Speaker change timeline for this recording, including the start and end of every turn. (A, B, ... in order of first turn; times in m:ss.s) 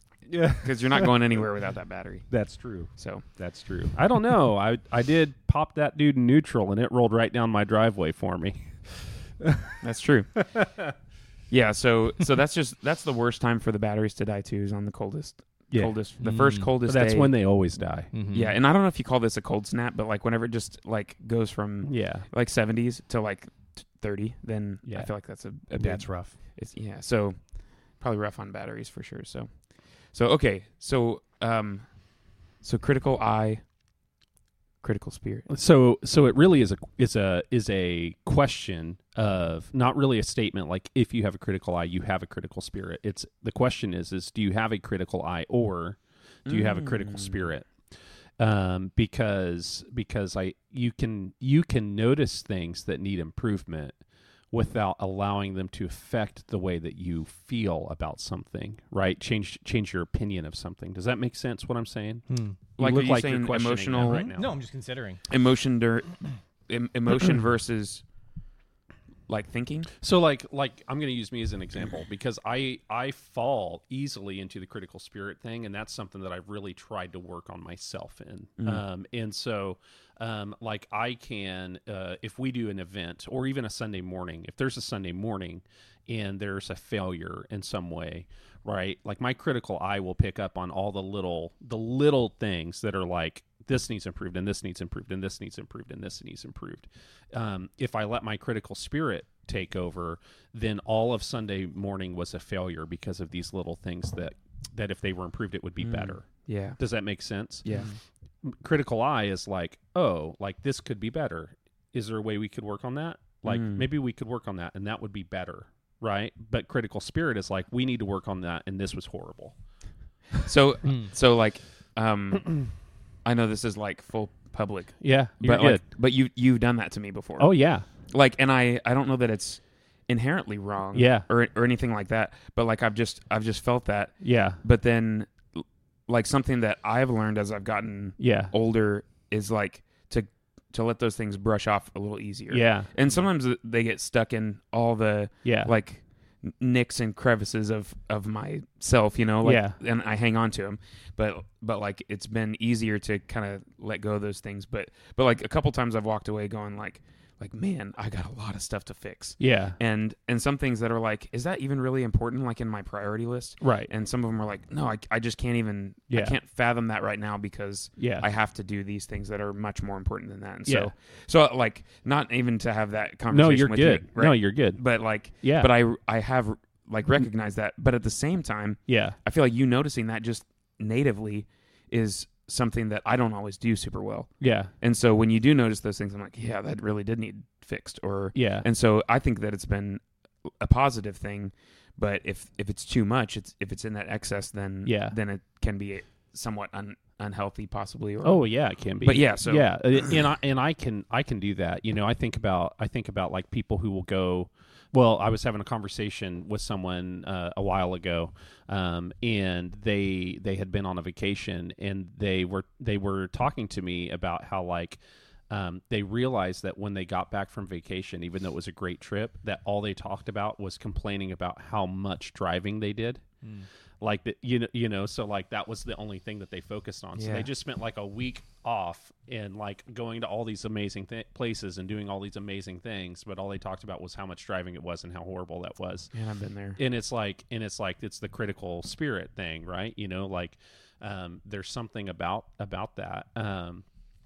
0:00.3-0:01.2 A
0:00.5-0:02.3 B
0:02.3-0:09.7 A
0:03.0-0:03.2 B
0:09.8-0:10.5 B
0:11.5-0:17.4 B
0:15.7-0:16.0 A
0:16.2-0:16.7 C
0:16.8-0:18.1 A
0:18.1-0:18.5 C
0:18.3-0:29.6 B
0:21.8-0:22.3 A
0:25.8-0:26.4 C
0:30.1-0:32.0 B
0:32.6-0:33.6 B
0:34.8-0:35.5 B
0:35.5-0:47.8 A
0:46.5-0:47.5 B
0:48.4-0:54.0 A
0:54.5-1:04.5 A
1:02.3-1:02.6 C
1:02.8-1:04.3 B
1:04.0-1:05.2 C
1:05.3-1:08.0 B
1:09.3-1:09.9 B
1:10.0-1:47.8 A
1:45.8-1:46.8 B
1:47.6-1:47.9 B
1:47.7-1:48.0 C
1:48.4-1:59.6 A
1:53.5-1:53.8 B
2:00.4-2:07.5 B
2:05.0-2:05.8 A
2:07.4-2:07.8 A
2:08.1-3:18.5 B
2:10.9-2:11.3 A
2:14.2-2:14.6 A
2:18.2-2:18.5 A
2:22.5-2:22.9 A
2:25.4-2:25.7 A
2:29.4-2:29.8 A
2:39.4-2:39.8 A
2:43.6-2:43.9 A
2:46.1-2:46.4 A
2:48.0-2:48.3 A
2:50.7-2:50.9 A
2:53.3-2:55.7 A
2:58.9-2:59.2 A
3:04.4-3:04.7 A
3:08.3-3:08.7 A
3:14.8-3:15.2 A
3:18.2-3:35.0 A
3:19.0-3:20.1 B
3:35.5-3:43.2 A
3:43.4-3:43.7 C
3:44.0-3:56.1 A
3:47.2-3:47.5 B
3:56.1-3:56.8 B
3:56.8-4:03.8 A